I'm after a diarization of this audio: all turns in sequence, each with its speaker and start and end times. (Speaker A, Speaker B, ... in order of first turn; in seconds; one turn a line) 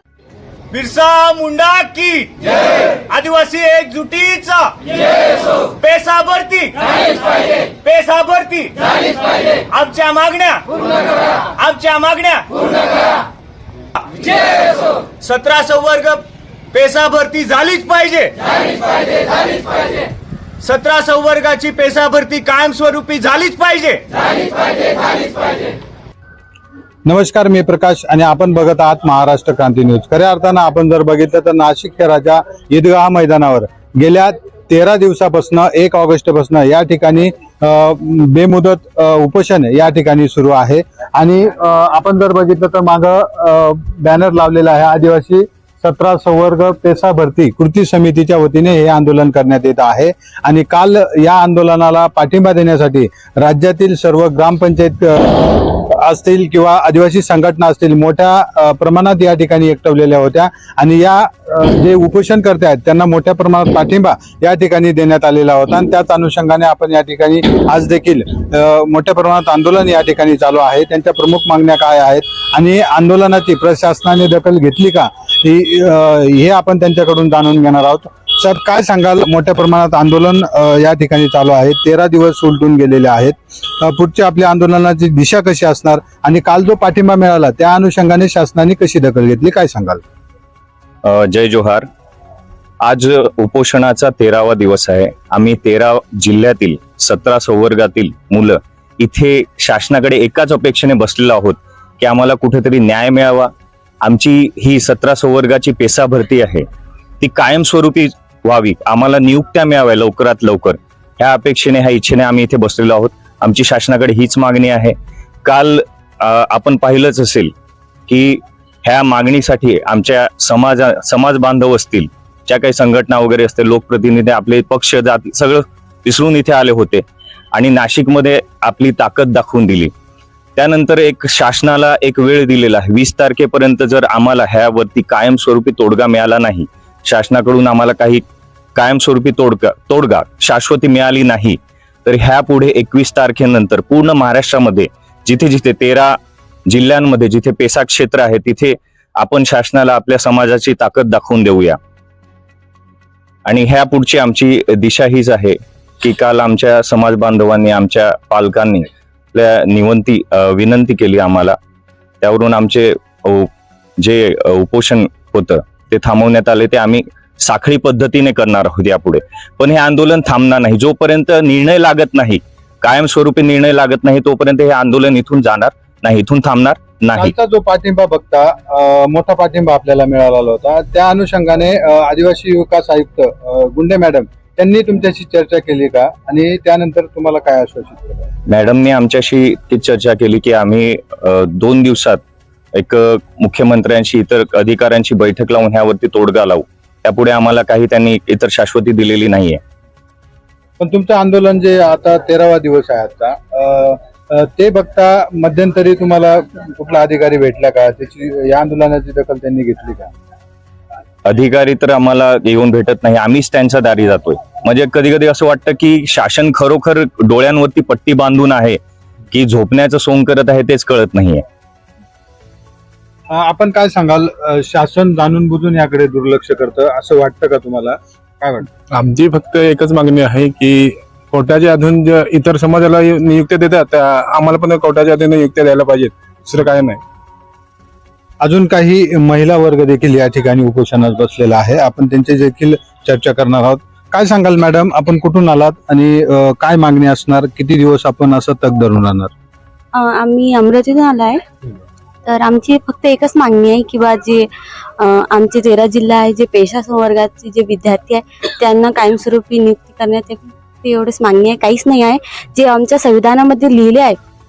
Speaker A: 0.7-4.7
Speaker A: 5.5-9.0
Speaker A: 9.6-10.7
Speaker A: 11.5-12.5
Speaker A: 15.2-18.4
Speaker A: 20.6-24.0
Speaker B: 27.1-90.0
Speaker C: 91.0-91.8
Speaker C: 92.8-103.5
Speaker C: 104.0-106.6
Speaker C: 107.2-117.5
Speaker C: 118.1-129.9
Speaker C: 130.6-138.2
Speaker C: 138.7-146.2
Speaker C: 146.7-151.8
Speaker C: 153.4-161.6
Speaker C: 162.2-177.3
Speaker B: 177.2-188.3
Speaker C: 188.5-192.2
Speaker C: 192.8-199.6
Speaker B: 200.8-210.1
Speaker C: 211.2-218.8
Speaker C: 219.3-221.4
Speaker B: 223.3-228.6
Speaker D: 228.9-237.0
Speaker B: 238.4-249.3
Speaker E: 249.9-251.4
Speaker E: 252.2-254.5
Speaker E: 255.0-264.1